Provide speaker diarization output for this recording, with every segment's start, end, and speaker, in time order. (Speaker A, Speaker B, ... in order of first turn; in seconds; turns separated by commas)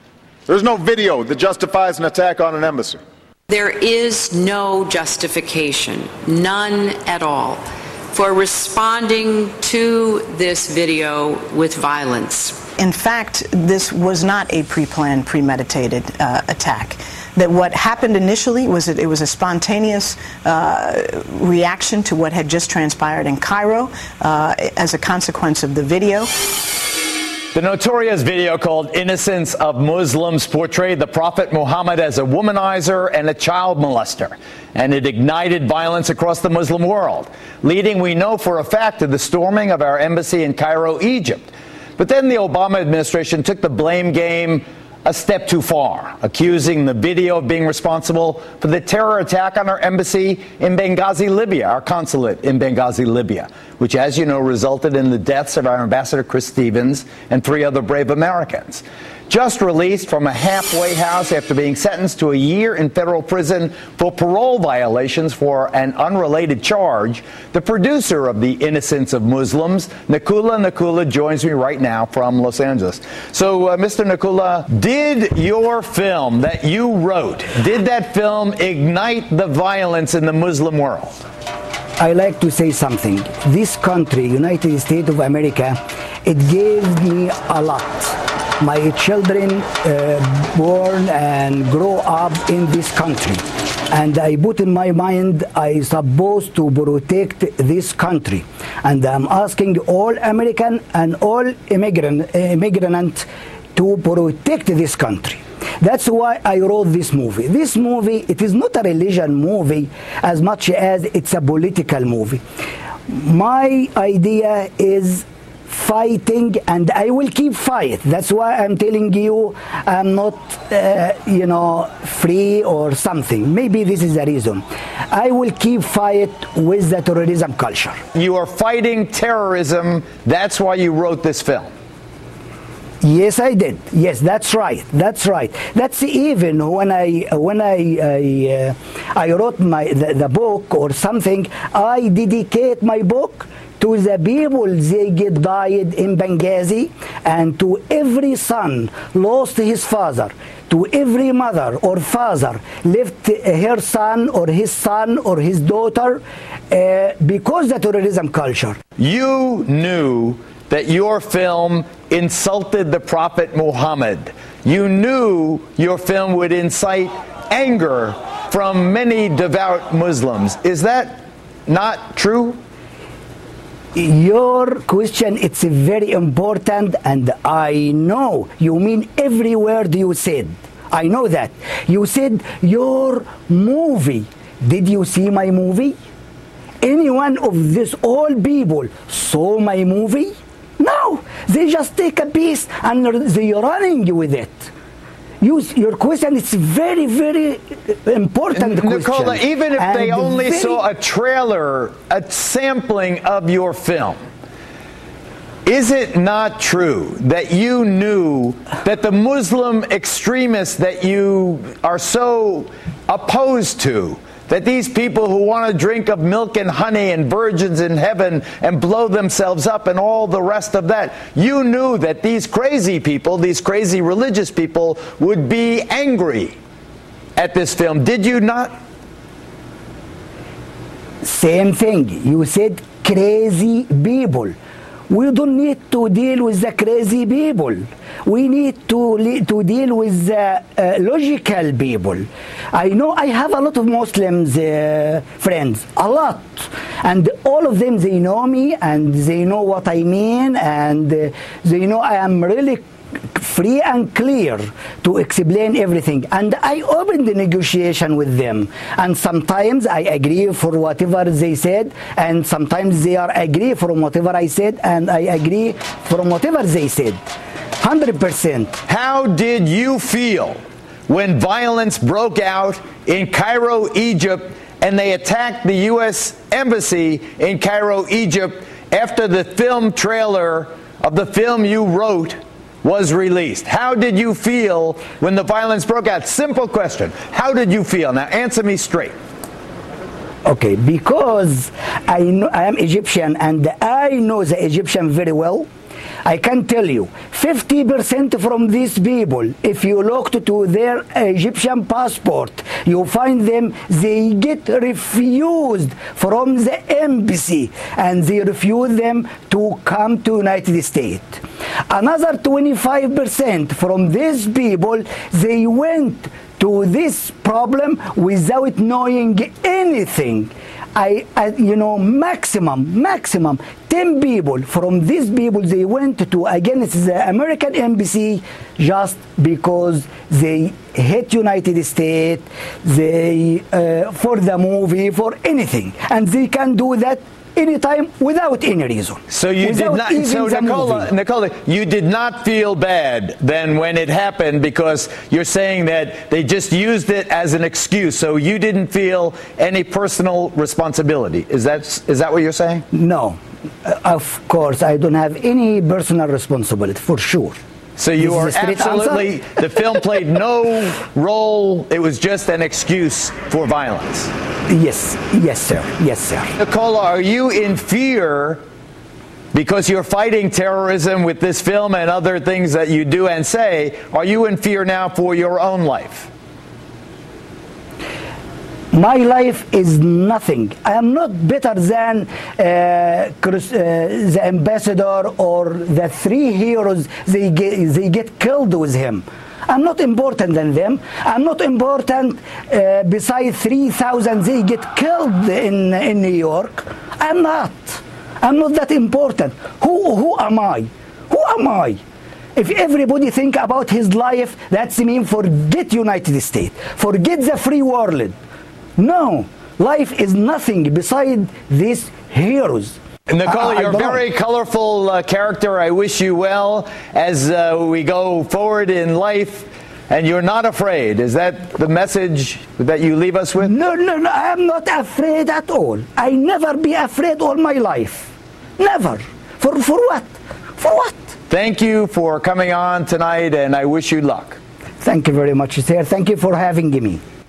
Speaker A: 0.5-3.0, Speaker B: 3.5-7.6, Speaker B: 8.1-12.7, Speaker C: 12.8-26.5, Speaker D: 27.5-81.2, Speaker E: 82.0-112.4, Speaker E: 113.1-128.0, Speaker D: 128.1-131.7, Speaker E: 133.0-158.8, Speaker D: 159.0-172.6, Speaker E: 173.9-186.0, Speaker E: 186.8-194.7, Speaker E: 195.4-200.8, Speaker D: 198.6-204.2, Speaker D: 205.7-226.6, Speaker D: 227.4-228.7, Speaker E: 231.2-234.5, Speaker E: 235.1-267.2, Speaker E: 267.8-268.8, Speaker D: 268.9-289.1, Speaker E: 290.4-295.7, Speaker E: 296.2-341.1, Speaker D: 339.3-352.8, Speaker E: 352.9-357.6, Speaker D: 358.0-364.3, Speaker E: 358.2-359.3, Speaker E: 364.7-366.5, Speaker D: 366.6-368.6, Speaker D: 369.5-376.3, Speaker E: 378.9-402.0, Speaker E: 402.6-408.4, Speaker E: 409.0-414.2, Speaker D: 413.3-423.7, Speaker E: 423.6-431.2, Speaker D: 431.5-434.6, Speaker E: 435.0-437.2